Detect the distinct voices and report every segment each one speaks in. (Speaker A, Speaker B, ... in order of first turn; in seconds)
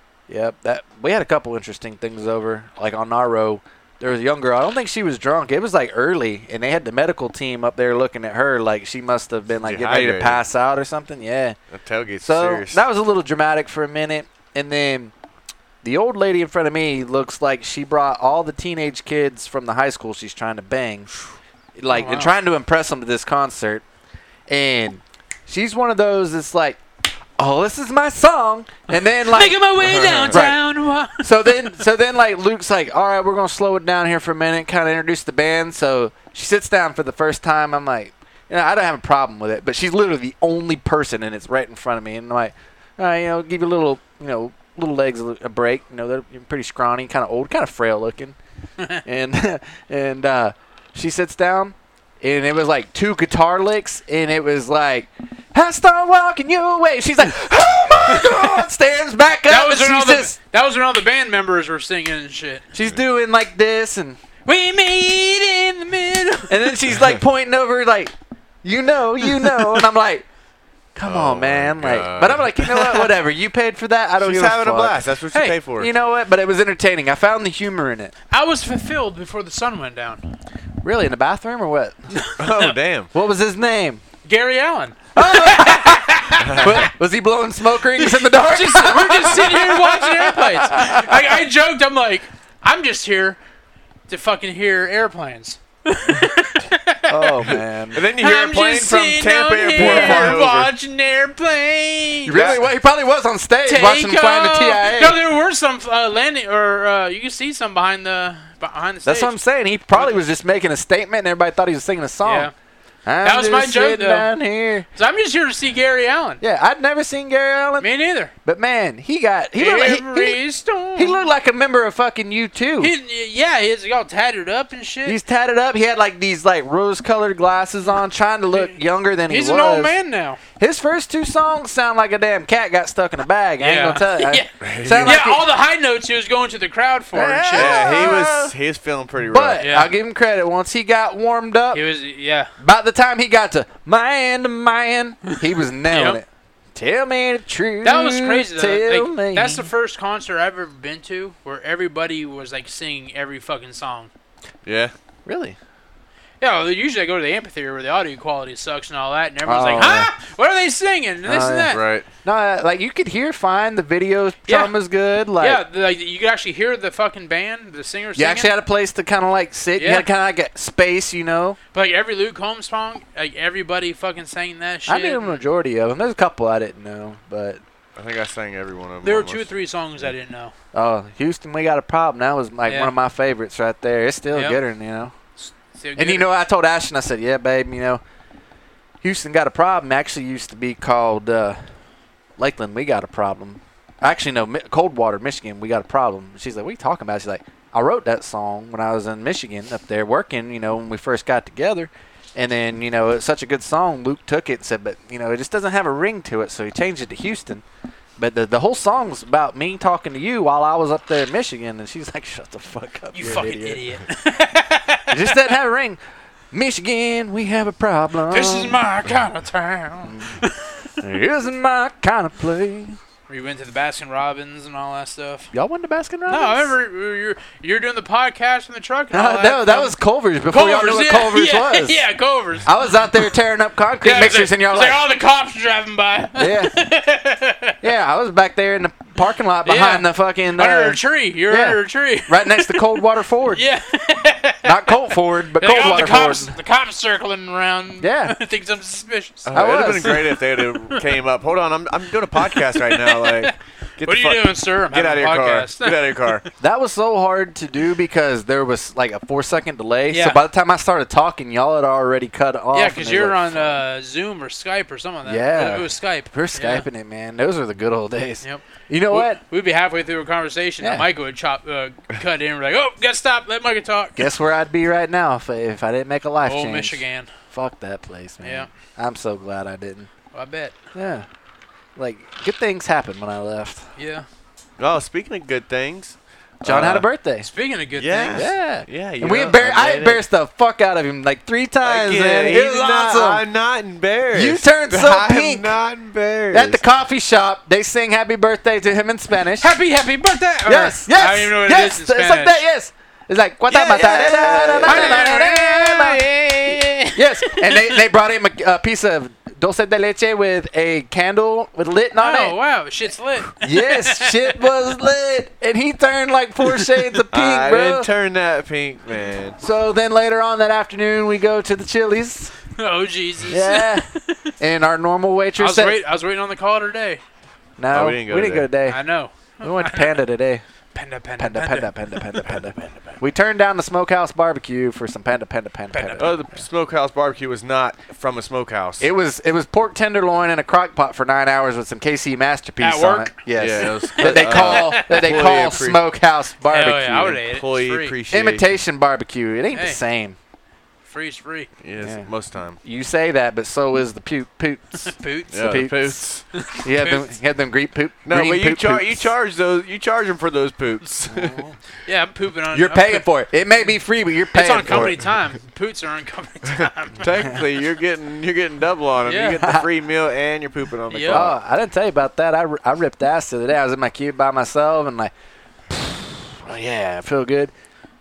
Speaker A: 0.3-11.6, 12.2-15.1, 15.8-21.1, 21.8-23.8, 24.5-26.8, 27.4-29.6, 30.3-48.4, 49.0-60.4, 62.7-64.2, 66.5-70.2, 71.0-75.0, 75.8-78.1, 80.8-82.1, 83.1-84.0, 85.1-91.3, 97.1-98.0, 99.8-100.5, 102.2-105.2, 109.0-112.5, 113.0-114.9, 116.4-117.9, 118.4-120.4, 121.0-122.9, 125.0-130.0, 130.6-135.5, 137.1-138.5, 139.2-141.8, 142.6-149.7, 155.2-155.6, 159.4-160.1, 161.2-165.6, 168.2-171.6, 174.9-177.6, 180.7-185.1, 186.0-188.0, 189.0-191.6, 192.4-207.6, 208.2-213.8, 215.1-218.8, 220.0-220.4, 221.0-223.0, 225.5-226.7, 229.1-232.0, 232.6-235.1, 236.4-236.8, 237.8-243.6, 244.6-246.5, 248.0-248.4, 249.5-250.3, 256.6-263.8, 265.2-269.4, 270.8-271.1, 274.2-280.1, 280.9-281.2, 282.0-283.8, 286.6-287.5, 288.3-293.4, 294.3-295.8, 296.5-299.7, 300.6-306.3, 307.1-312.6, 313.5-318.1, 319.6-322.5, 323.5-326.0, 327.8-329.0, 329.6-330.6, 331.4-336.4, 339.0-347.4, 348.3-350.4, 352.0-352.3, 352.8-356.2, 356.8-359.3, 361.3-361.8, 362.7-365.2, 369.6-369.9, 371.2-375.3, 375.9-377.7
Speaker B: 9.6-10.4, 11.7-12.8, 29.8-30.4, 71.0-73.1, 74.2-75.9, 82.4-83.1, 86.4-86.8, 97.5-100.7, 102.3-102.6, 134.6-135.2, 137.5-139.6, 154.6-154.9, 161.7-162.1, 178.0-179.5, 249.5-256.4, 284.8-287.1, 288.0-290.2, 291.8-296.8, 303.7-305.3, 317.3-319.6, 327.9-328.7, 336.2-339.1, 343.5-346.0, 347.5-348.8, 351.8-352.8, 355.5-356.4, 358.2-361.6, 367.1-371.5
Speaker C: 21.9-22.3, 29.2-31.8, 58.1-58.5, 59.5-62.7, 64.5-66.8, 69.3-69.8, 78.3-80.2, 82.1-82.7, 84.2-86.8, 88.0-93.4, 94.1-97.5, 98.1-102.5, 103.6-109.3, 109.9-110.2, 112.2-112.5, 113.2-114.3, 115.0-116.4, 117.8-118.3, 119.6-121.2, 122.8-125.2, 129.3-130.4, 133.6-138.1, 139.6-139.9, 141.7-142.5, 145.3-146.2, 147.8-154.1, 156.4-161.8, 164.5-164.7, 165.4-168.5, 169.8-170.1, 171.7-175.4, 179.0-180.5, 182.7-182.9, 184.3-184.6, 185.4-186.3, 213.1-215.3, 218.3-220.9, 223.3-225.5, 226.3-229.9, 230.5-233.3, 234.0-237.8, 239.6-243.0, 243.5-251.0, 252.4-256.4, 260.1-260.4, 262.7-266.9, 268.4-274.3, 276.4-277.3, 278.4-278.7, 280.3-280.8, 284.0-284.2, 287.4-288.5, 299.6-302.6, 304.8-308.0, 312.2-314.5, 322.8-324.5, 325.6-327.2, 328.9-330.2, 330.9-332.5, 335.9-336.3, 342.8-343.4, 344.0-345.5, 346.7-348.1, 349.7-350.0, 351.1-351.7, 355.0-355.7, 356.5-357.3, 362.1-363.2, 364.5-367.3, 369.2-369.6, 371.1-371.5